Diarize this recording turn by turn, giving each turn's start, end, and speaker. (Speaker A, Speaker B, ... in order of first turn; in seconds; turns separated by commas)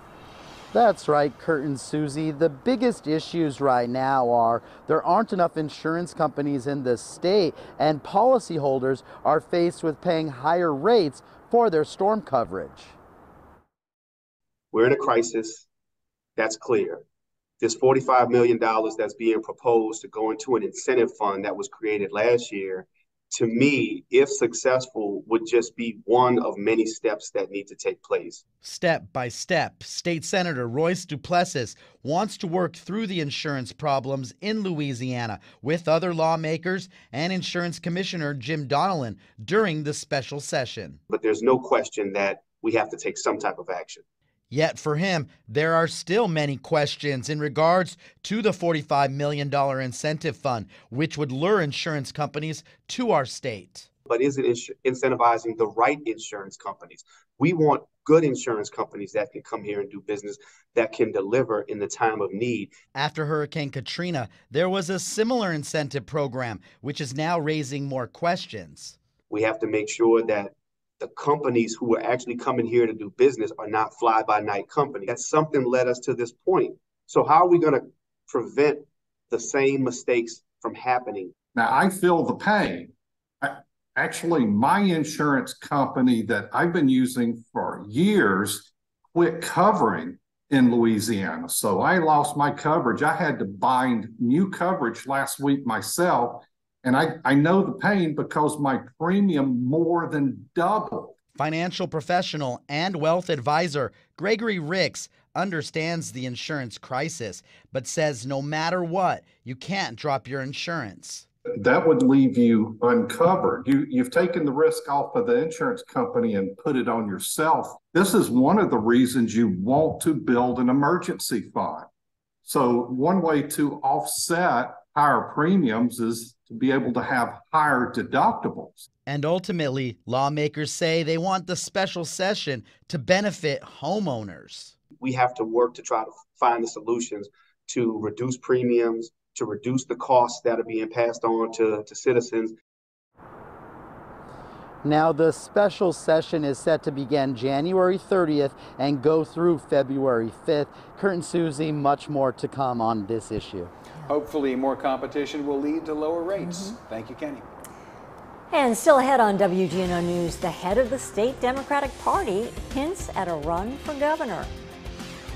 Speaker A: 0.7-13.0, Speaker B: 14.7-15.7, Speaker B: 16.4-17.0, Speaker B: 17.6-28.4, Speaker A: 28.6-41.0, Speaker B: 41.1-44.0, Speaker A: 44.5-53.9, Speaker B: 54.1-62.7, Speaker A: 62.9-69.0, Speaker B: 69.3-81.3, Speaker C: 81.5-101.2, Speaker A: 101.3-111.3, Speaker C: 111.5-121.9, Speaker C: 122.4-128.8, Speaker A: 129.1-134.8, Speaker B: 135.0-142.5, Speaker A: 144.8-153.7, Speaker D: 154.0-157.4, Speaker E: 156.5-156.7, Speaker E: 158.5-164.5